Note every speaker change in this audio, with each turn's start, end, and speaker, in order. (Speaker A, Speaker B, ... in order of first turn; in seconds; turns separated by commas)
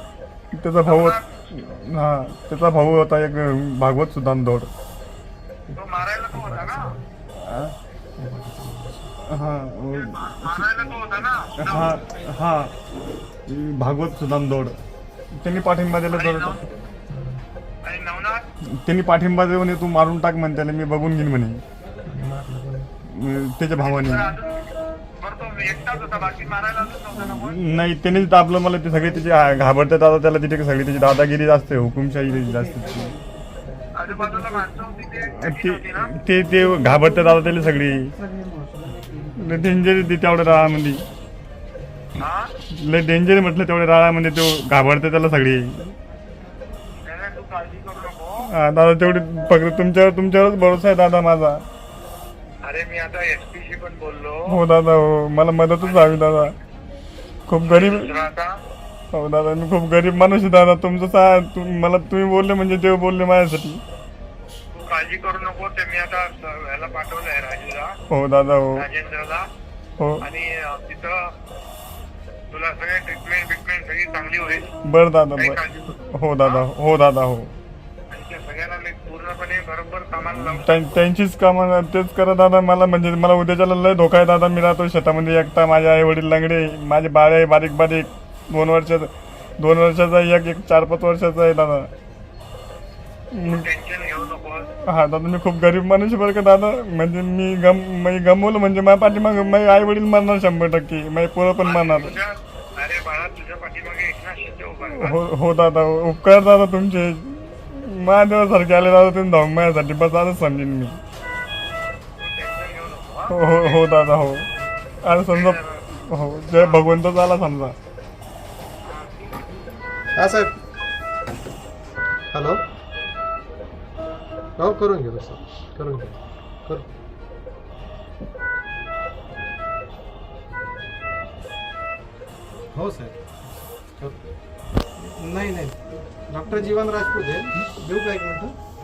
Speaker A: 0.5-4.7, Speaker B: 0.8-1.3, Speaker C: 5.7-7.0, Speaker B: 5.7-6.9, Speaker A: 7.3-7.7, Speaker C: 8.2-9.1, Speaker A: 9.2-10.5, Speaker B: 9.9-12.0, Speaker A: 11.6-12.7, Speaker A: 13.5-14.8, Speaker A: 15.4-16.6, Speaker B: 16.1-16.6, Speaker B: 17.8-18.4, Speaker A: 18.8-21.6, Speaker C: 22.1-22.9, Speaker A: 23.1-24.3, Speaker B: 23.8-27.6, Speaker A: 27.2-33.1, Speaker B: 33.9-36.1, Speaker A: 35.4-38.1, Speaker A: 39.4-41.0, Speaker B: 42.2-42.5, Speaker A: 42.7-45.9, Speaker B: 47.0-48.5, Speaker A: 48.4-51.6, Speaker B: 52.6-54.6, Speaker A: 54.5-56.5, Speaker B: 55.8-56.5, Speaker A: 57.5-58.1, Speaker B: 57.6-58.6, Speaker A: 59.1-63.8, Speaker B: 64.7-67.9, Speaker A: 68.1-68.8, Speaker B: 68.7-69.5, Speaker A: 70.0-70.2, Speaker B: 70.2-71.3, Speaker B: 72.5-74.7, Speaker A: 74.8-77.5, Speaker B: 75.4-76.7, Speaker B: 78.1-80.7, Speaker A: 80.6-91.9, Speaker A: 93.3-93.7, Speaker B: 93.4-94.7, Speaker A: 94.9-102.2, Speaker B: 101.6-105.2, Speaker A: 104.9-111.0, Speaker B: 112.2-113.8, Speaker A: 113.3-114.5, Speaker A: 115.0-117.7, Speaker B: 115.3-115.8, Speaker B: 116.5-116.9, Speaker B: 118.8-119.5, Speaker C: 120.2-120.5, Speaker C: 122.3-122.6, Speaker C: 124.6-126.9, Speaker C: 132.7-134.2, Speaker C: 135.0-138.5